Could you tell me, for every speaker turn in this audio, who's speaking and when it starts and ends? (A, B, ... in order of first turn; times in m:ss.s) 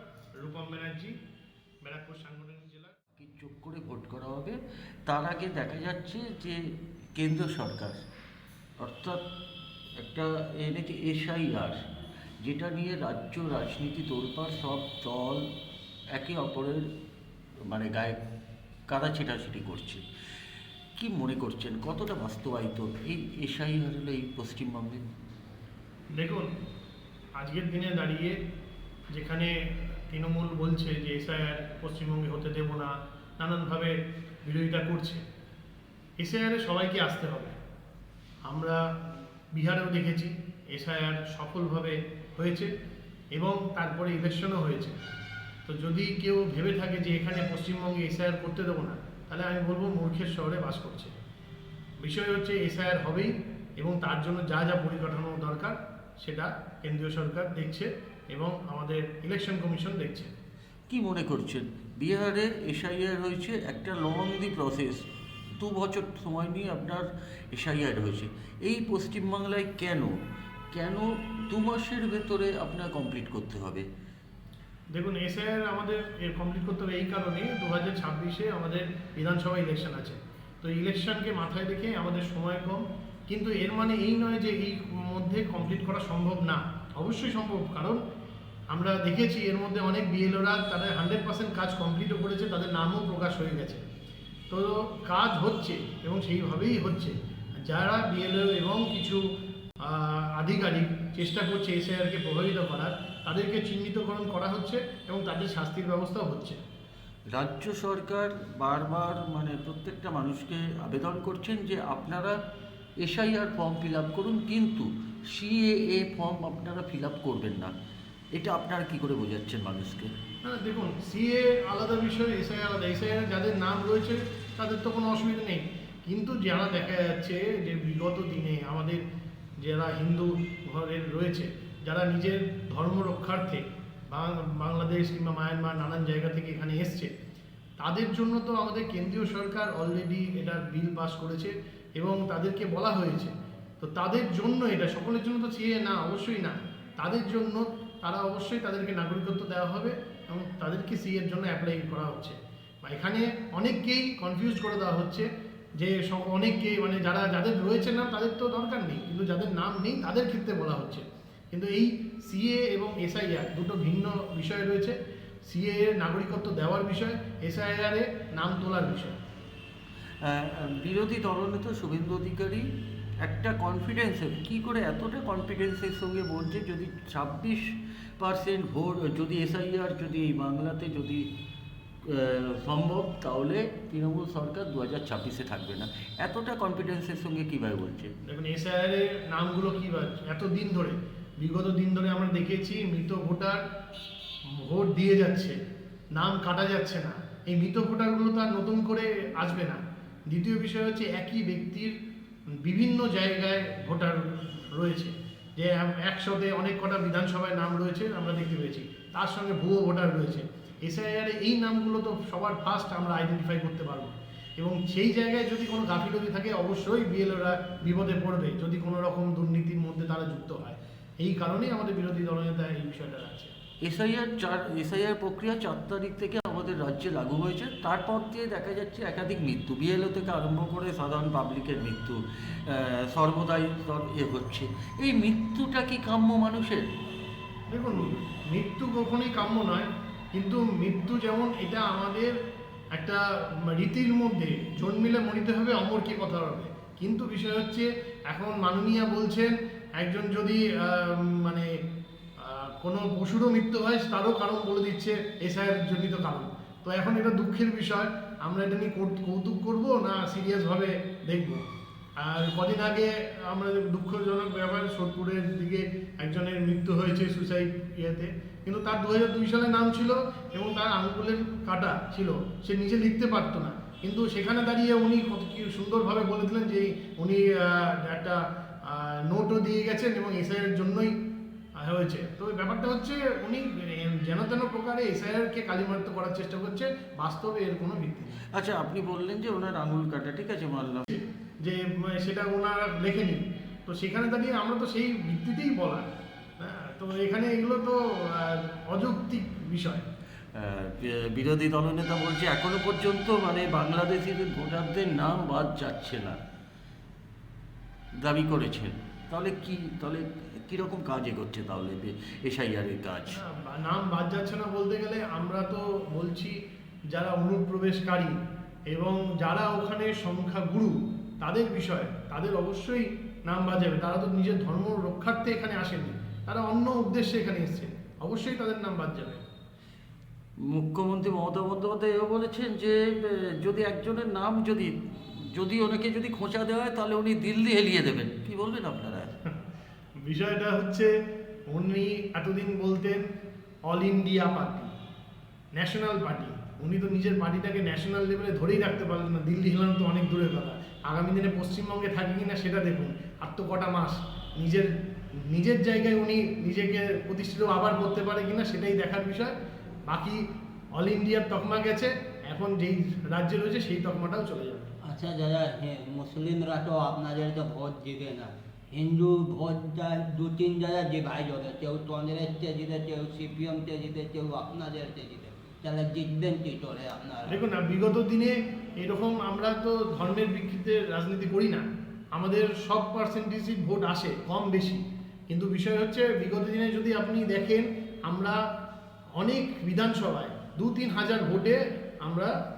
0:00.4-0:01.1 A
0:01.8-0:02.9 A
0:03.2-0:06.6 B
0:07.2-0:08.0 B
0:08.8-0:09.2 B
0:10.0-0:11.8 B
0:12.4-0:15.4 B
0:16.1-0:16.8 B
0:17.7-0:18.2 B
0:18.9-0:20.0 B
0:21.0-0:25.0 B
0:26.1-0:26.5 A
0:27.4-0:28.4 A
0:29.1-0:33.9 A
0:34.4-0:35.2 A
0:36.2-0:37.5 A
0:38.4-0:38.8 A
0:39.5-0:42.7 A
0:43.3-0:45.0 A
0:45.6-0:51.1 A
0:52.0-1:00.3 A
1:00.9-1:05.0 B
1:05.6-1:10.2 B
1:10.7-1:13.9 B
1:14.9-1:28.0 A
1:28.7-1:33.8 A
1:34.5-1:39.2 A
1:39.8-1:46.6 A
1:47.3-1:52.4 B
1:53.0-1:57.7 B
1:58.4-2:00.1 B
2:00.4-2:09.0 A
2:09.6-2:17.1 A
2:17.8-2:49.1 A
2:50.2-3:01.3 B
3:02.0-3:08.1 B
3:08.3-3:13.6 A
3:14.5-3:15.6 A
3:16.1-3:21.9 A
3:22.6-3:43.5 A
3:43.8-3:56.9 B
3:57.7-4:02.3 A
4:02.9-4:11.7 A
4:12.4-4:21.6 A
4:22.2-4:41.1 A
4:41.8-4:48.4 A
4:48.5-4:51.1 B
4:51.1-4:56.1 A
4:56.6-5:00.0 A
5:00.5-5:06.4 B
5:08.2-5:13.4 B
5:13.3-5:16.6 A
5:17.1-5:29.4 A
5:30.6-5:39.4 B
5:40.2-5:41.1 A
5:41.7-5:43.2 A
5:43.8-5:44.9 A
5:45.7-5:59.5 A
6:00.1-6:00.4 A
6:00.9-6:04.9 A
6:05.0-6:17.6 C
6:17.5-6:21.8 A
6:22.3-6:28.6 A
6:29.4-6:32.5 A